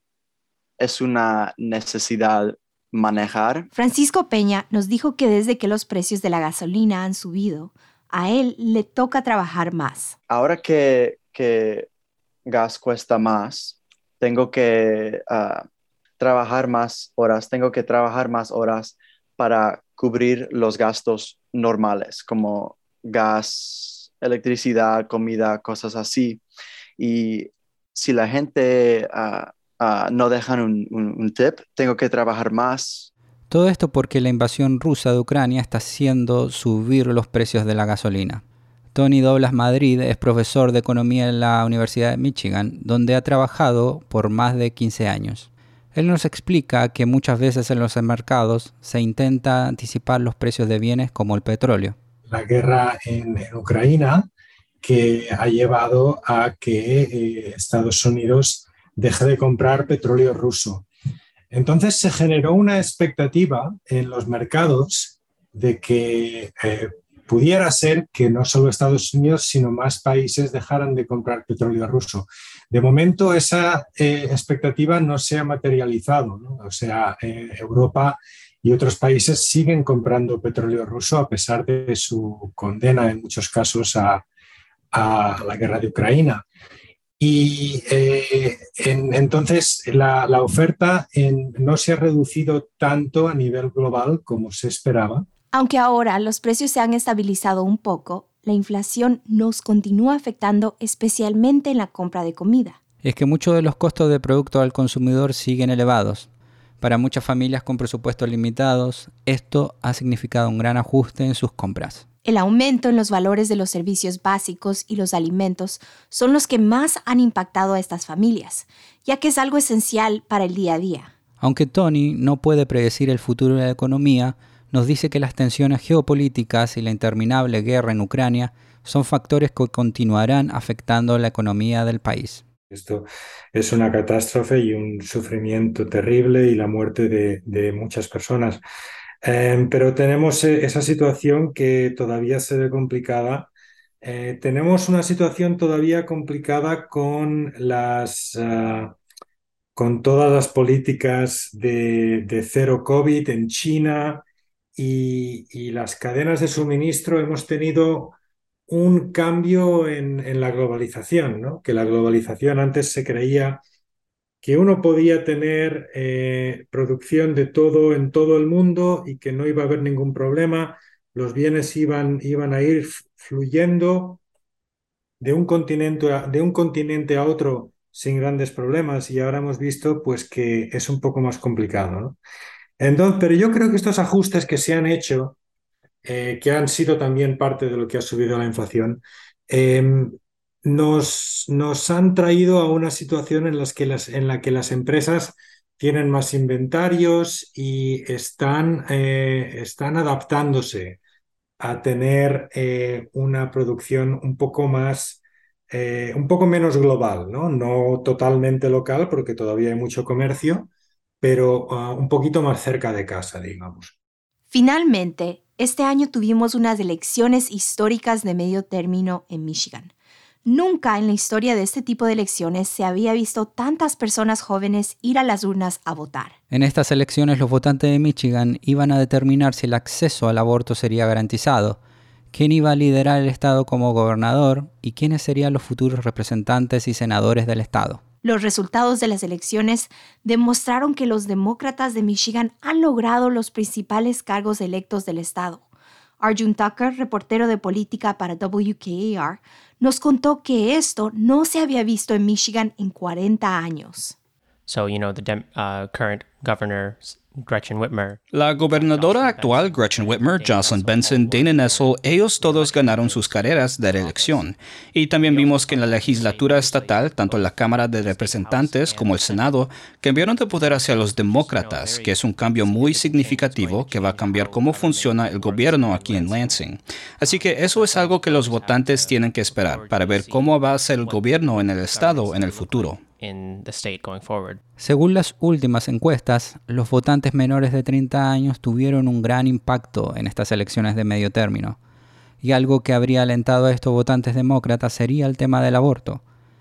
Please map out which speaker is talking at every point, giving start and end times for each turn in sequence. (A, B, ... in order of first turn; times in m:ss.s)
0:00.8-0:03.7 A
0:03.7-0:10.1 B
0:10.3-0:11.9 A
0:12.5-0:15.6 A
0:16.2-0:26.4 A
0:27.0-0:33.1 A
0:33.5-0:38.4 C
0:38.9-0:51.9 C
0:52.3-0:54.3 D
0:54.8-1:00.8 D
1:01.5-1:24.2 D
1:24.9-1:26.4 D
1:27.2-1:35.2 D
1:35.5-1:42.8 B
1:43.0-1:46.3 C
1:46.8-1:52.0 C
1:52.2-2:01.1 B
2:01.4-2:12.4 C
2:12.7-2:18.6 D
2:19.2-2:23.5 D
2:24.0-2:29.0 D
2:29.8-2:34.2 D
2:34.8-2:38.1 D
2:38.7-2:43.6 D
2:44.4-2:54.2 D
2:55.2-3:02.2 D
3:02.8-3:05.4 D
3:06.0-3:21.0 D
3:21.6-3:30.7 D
3:31.2-3:33.9 D
3:34.5-3:39.9 B
3:40.4-3:46.3 B
3:46.5-3:51.8 C
3:52.3-3:58.0 C
3:58.2-4:05.6 B
4:06.2-4:14.2 B
4:14.7-4:24.5 E
4:18.3-4:43.0 F
4:25.1-4:44.6 E
4:44.8-4:51.8 C
4:52.4-4:56.2 C